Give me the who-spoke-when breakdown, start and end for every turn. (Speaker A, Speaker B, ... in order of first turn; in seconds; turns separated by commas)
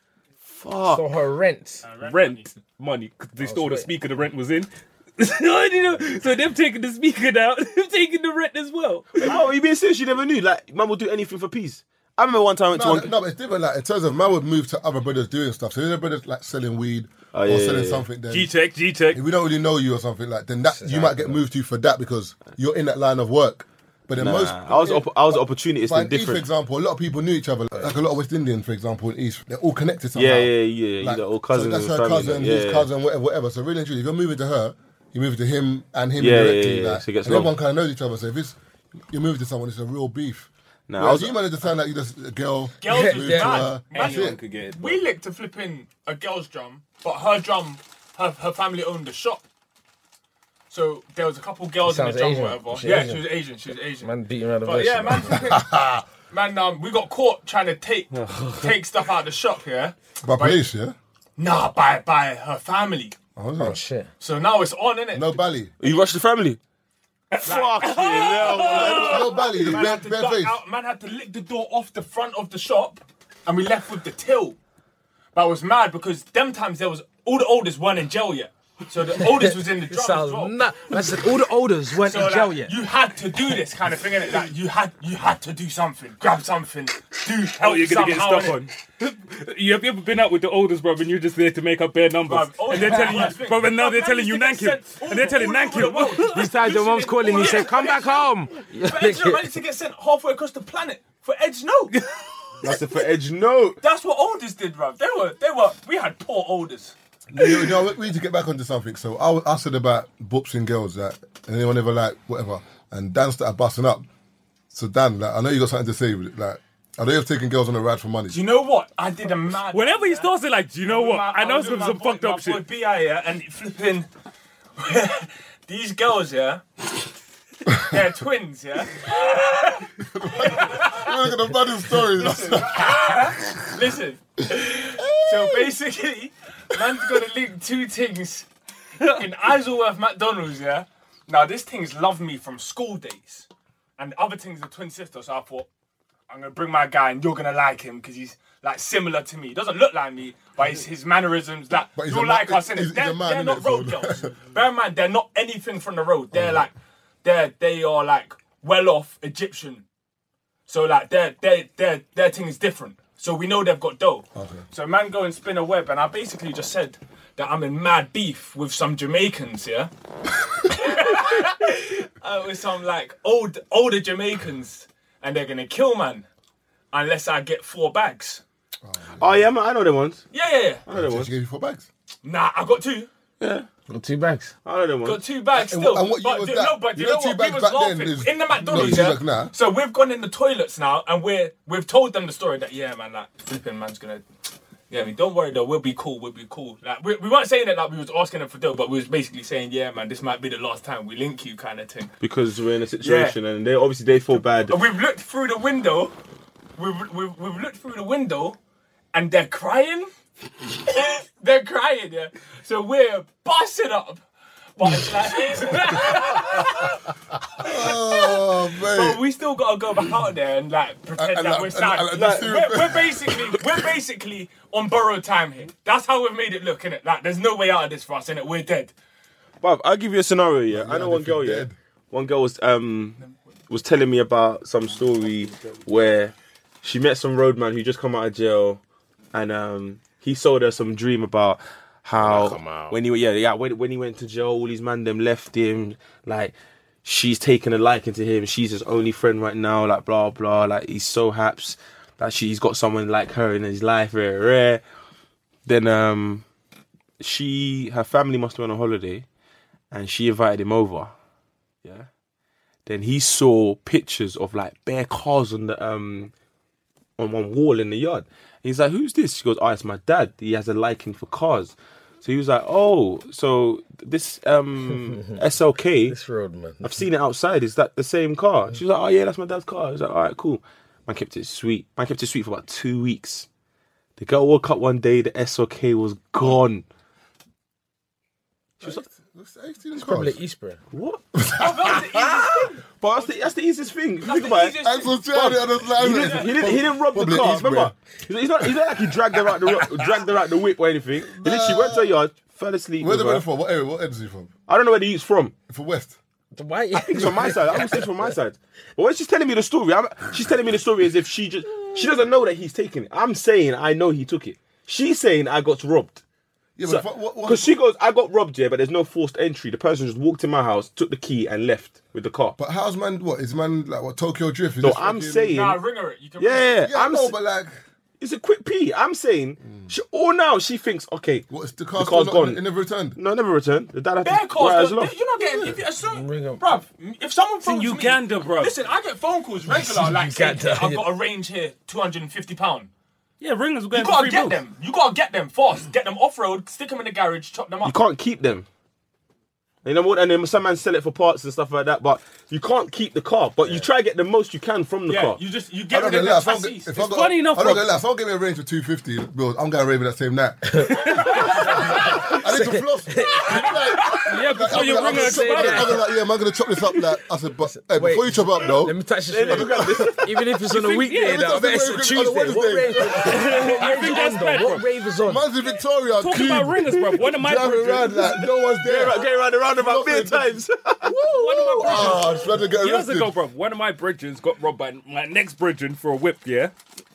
Speaker A: 0.5-1.1, Speaker B: 0.9-1.9, Speaker C: 1.8-2.5, Speaker D: 2.0-9.4, Speaker B: 3.4-3.9, Speaker A: 9.2-13.1, Speaker E: 12.7-18.5, Speaker A: 17.3-18.1, Speaker D: 18.3-19.2, Speaker E: 19.1-38.6, Speaker B: 20.7-21.4, Speaker A: 24.2-26.4, Speaker A: 30.1-32.9, Speaker A: 36.2-37.5, Speaker E: 39.1-44.4, Speaker A: 40.9-41.4, Speaker C: 42.8-49.4, Speaker B: 42.9-43.7, Speaker D: 43.9-45.0, Speaker C: 50.7-54.1, Speaker B: 51.8-53.3, Speaker B: 54.0-55.5, Speaker C: 54.6-55.7, Speaker E: 55.3-56.0, Speaker C: 56.3-60.6, Speaker E: 60.2-61.0, Speaker C: 61.4-63.1, Speaker E: 63.4-63.8, Speaker B: 63.6-64.1, Speaker C: 64.2-65.4, Speaker E: 65.1-65.7, Speaker A: 65.8-66.6, Speaker D: 67.3-69.6, Speaker A: 67.4-69.4, Speaker C: 67.4-74.6, Speaker E: 68.8-70.6, Speaker C: 75.3-80.6, Speaker B: 79.3-82.7, Speaker C: 82.0-88.7, Speaker D: 87.6-96.5, Speaker C: 92.3-102.0, Speaker B: 92.8-93.3, Speaker B: 96.3-99.5, Speaker D: 101.9-102.2, Speaker A: 102.6-103.8, Speaker C: 103.8-107.0, Speaker E: 107.3-114.1, Speaker E: 114.7-118.4, Speaker C: 118.3-120.3, Speaker D: 119.7-122.6, Speaker C: 120.8-124.1, Speaker C: 124.8-126.6, Speaker C: 127.8-131.1, Speaker E: 130.0-133.3, Speaker C: 131.9-138.5, Speaker E: 135.0-135.7, Speaker C: 139.0-143.5, Speaker C: 144.0-145.7, Speaker C: 146.3-156.7, Speaker E: 151.9-154.3, Speaker E: 156.3-156.7, Speaker C: 157.2-159.8, Speaker C: 160.7-169.9, Speaker E: 164.3-164.6, Speaker C: 170.6-176.3, Speaker C: 176.9-178.4, Speaker E: 178.8-179.5, Speaker A: 179.2-180.2, Speaker C: 180.3-180.8, Speaker A: 180.9-181.3, Speaker E: 180.9-181.9, Speaker C: 182.2-183.1, Speaker A: 183.4-183.7, Speaker B: 183.9-184.5, Speaker A: 184.7-185.2, Speaker C: 185.0-194.2, Speaker E: 185.5-189.5, Speaker A: 188.7-189.0, Speaker C: 194.9-202.1, Speaker A: 202.2-204.8, Speaker C: 203.0-203.4, Speaker C: 204.3-206.1, Speaker C: 206.8-208.6, Speaker C: 209.1-210.1, Speaker C: 210.7-214.2, Speaker C: 214.8-228.9, Speaker E: 216.1-216.9, Speaker E: 217.6-219.2, Speaker E: 221.2-223.8, Speaker A: 222.1-222.4, Speaker A: 229.6-238.8, Speaker E: 230.7-231.8, Speaker A: 239.3-254.8, Speaker A: 255.7-256.4, Speaker A: 257.2-259.2, Speaker A: 259.9-261.1, Speaker A: 261.8-262.1, Speaker A: 262.9-266.3, Speaker A: 267.2-276.2, Speaker B: 276.1-276.9, Speaker A: 276.8-283.5, Speaker A: 284.2-286.9, Speaker E: 288.8-290.4, Speaker B: 290.0-290.8, Speaker A: 290.9-291.3, Speaker E: 291.4-292.4, Speaker C: 291.6-293.3, Speaker A: 292.2-303.4, Speaker C: 294.2-295.2, Speaker E: 294.8-297.9, Speaker C: 296.1-296.8, Speaker E: 301.3-302.2, Speaker E: 303.0-304.5, Speaker A: 304.7-305.6, Speaker E: 305.7-306.2, Speaker B: 306.6-308.0, Speaker A: 306.9-316.2, Speaker E: 316.8-317.7, Speaker A: 316.9-322.6, Speaker E: 322.6-325.6, Speaker A: 324.8-325.8, Speaker C: 325.5-326.9, Speaker A: 326.4-327.3, Speaker E: 326.8-327.8, Speaker A: 328.2-332.6, Speaker E: 329.6-329.9, Speaker E: 331.5-333.2, Speaker A: 333.2-335.1, Speaker C: 334.2-342.9, Speaker B: 336.1-336.6, Speaker D: 337.6-338.8, Speaker B: 339.7-341.1, Speaker D: 343.4-344.6, Speaker C: 343.9-348.0, Speaker A: 347.9-348.7, Speaker A: 349.9-355.4, Speaker C: 355.1-356.9, Speaker E: 355.9-369.0, Speaker D: 356.9-357.9, Speaker B: 360.7-363.5, Speaker D: 360.9-361.6, Speaker D: 364.2-366.0, Speaker B: 364.6-366.0, Speaker B: 367.7-375.4, Speaker A: 369.3-370.3, Speaker E: 369.5-370.1, Speaker D: 370.7-371.6, Speaker E: 371.2-373.8, Speaker D: 373.2-374.9, Speaker E: 375.2-383.3, Speaker D: 376.2-378.3, Speaker A: 376.9-377.2, Speaker A: 378.2-381.2, Speaker B: 381.2-382.2, Speaker D: 381.2-386.7